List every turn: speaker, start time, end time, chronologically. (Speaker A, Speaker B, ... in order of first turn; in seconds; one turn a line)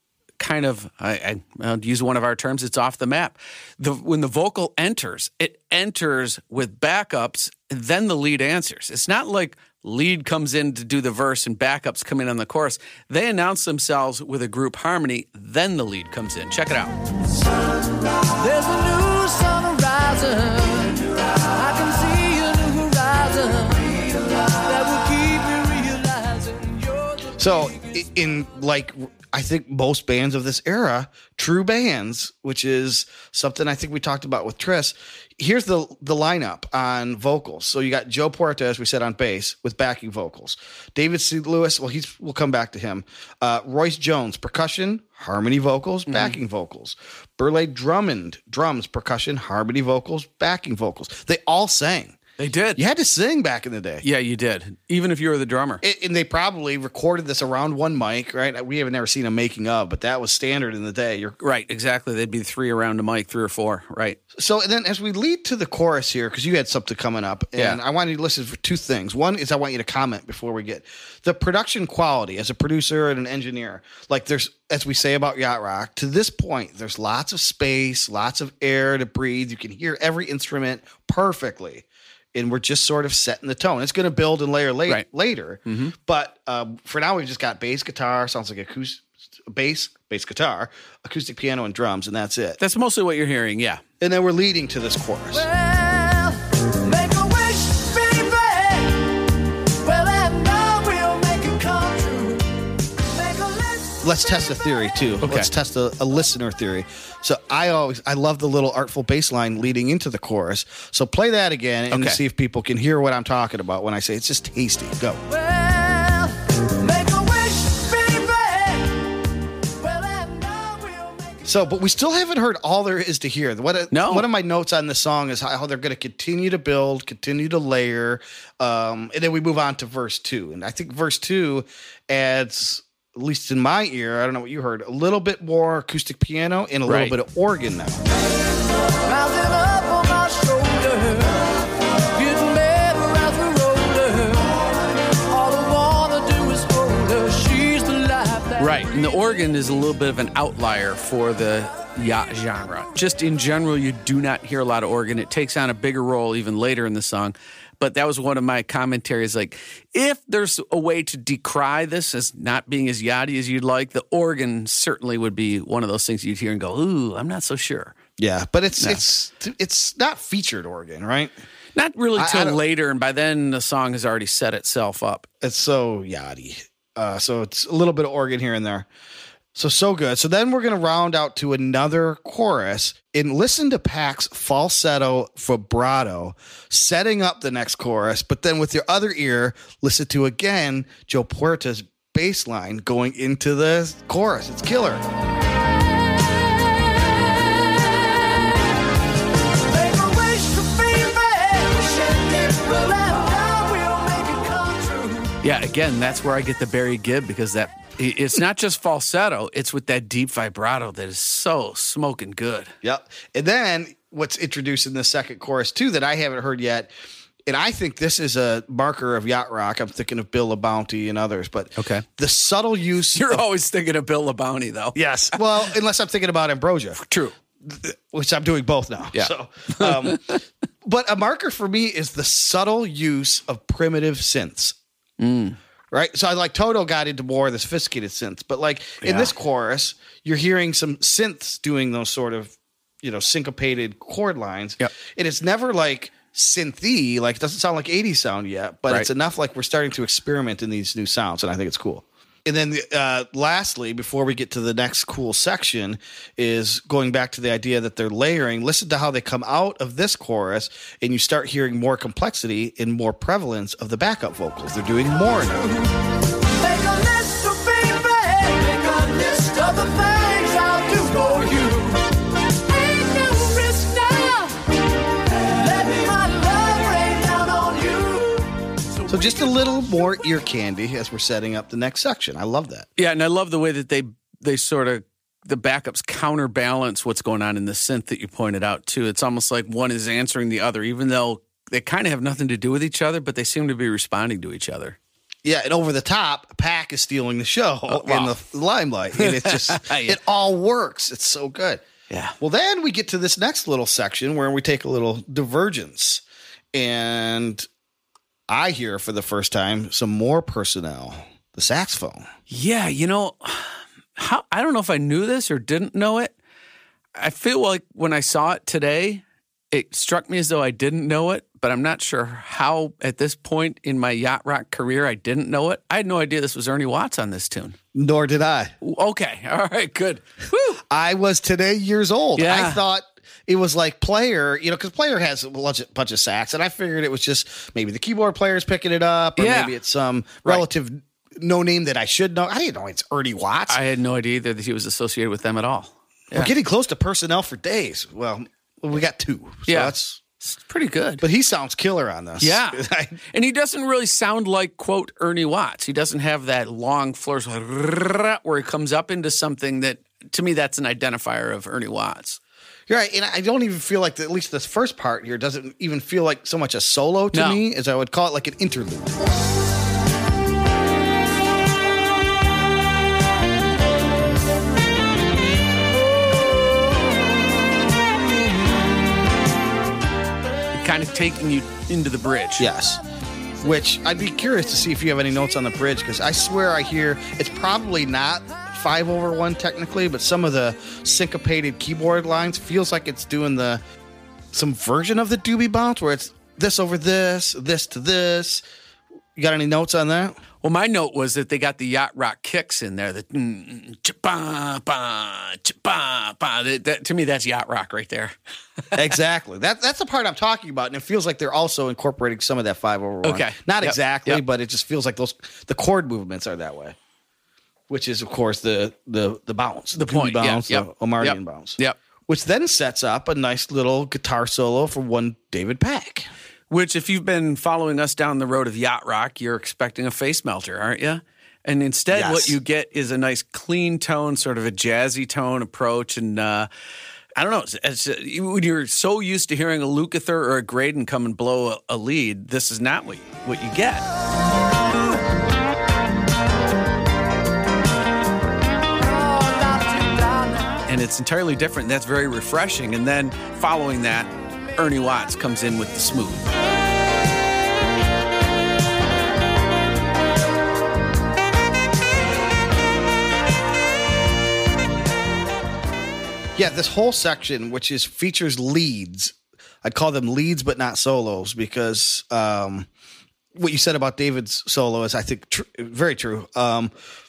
Speaker A: 0.4-16.9
Speaker B: 18.3-27.9
Speaker C: 27.4-52.2
Speaker A: 46.1-46.4
Speaker A: 52.4-52.8
Speaker C: 52.8-54.0
Speaker A: 54.0-55.8
Speaker C: 55.8-61.4
Speaker A: 61.4-64.2
Speaker C: 64.3-92.6
Speaker A: 85.7-85.9
Speaker A: 92.6-93.8
Speaker C: 94.0-95.5
Speaker B: 95.3-99.2
Speaker B: 99.8-102.5
Speaker B: 103.1-104.0
Speaker C: 104.0-115.2
Speaker A: 105.2-105.5
Speaker A: 111.9-112.2
Speaker B: 115.3-119.1
Speaker B: 119.8-121.5
Speaker C: 121.5-138.0
Speaker A: 123.9-124.3
Speaker A: 136.8-137.2
Speaker B: 139.1-141.4
Speaker B: 142.1-144.7
Speaker B: 145.3-149.2
Speaker A: 148.6-168.0
Speaker C: 168.2-171.3
Speaker A: 171.8-175.3
Speaker C: 172.2-172.6
Speaker C: 175.4-178.9
Speaker C: 179.5-195.1
Speaker B: 199.7-205.3
Speaker A: 205.4-212.7
Speaker C: 212.8-216.9
Speaker C: 217.5-223.4
Speaker A: 221.8-222.1
Speaker A: 223.2-225.6
Speaker C: 224.9-227.0
Speaker A: 227.0-227.3
Speaker C: 227.6-230.2
Speaker A: 229.1-230.4
Speaker C: 230.8-234.8
Speaker A: 235.2-235.6
Speaker C: 235.9-265.7
Speaker A: 239.0-239.3
Speaker B: 265.3-265.9
Speaker B: 266.5-274.6
Speaker B: 275.3-278.6
Speaker C: 279.1-282.9
Speaker A: 283.0-295.0
Speaker C: 295.4-301.8
Speaker A: 297.9-298.3
Speaker A: 299.2-300.2
Speaker A: 302.1-302.4
Speaker C: 302.4-307.7
Speaker C: 308.5-312.3
Speaker A: 312.5-316.3
Speaker A: 317.2-327.8
Speaker C: 327.9-328.8
Speaker A: 328.8-330.8
Speaker C: 330.9-343.8
Speaker A: 332.4-332.8
Speaker A: 339.4-339.7
Speaker A: 343.7-346.5
Speaker C: 346.3-350.2
Speaker A: 349.7-351.2
Speaker C: 351.2-353.2
Speaker A: 352.4-362.4
Speaker C: 362.9-369.2
Speaker A: 367.3-367.6
Speaker A: 380.7-382.7
Speaker C: 382.6-383.0
Speaker C: 383.6-393.8
Speaker C: 394.5-398.6
Speaker C: 399.4-400.4
Speaker A: 400.6-408.4
Speaker C: 408.9-417.0
Speaker A: 413.2-414.4
Speaker C: 417.9-426.3
Speaker A: 419.9-422.0
Speaker A: 426.7-436.7
Speaker C: 432.1-432.6
Speaker A: 437.4-444.1
Speaker B: 449.0-450.8
Speaker A: 450.9-456.5
Speaker C: 466.6-472.9
Speaker C: 473.5-476.9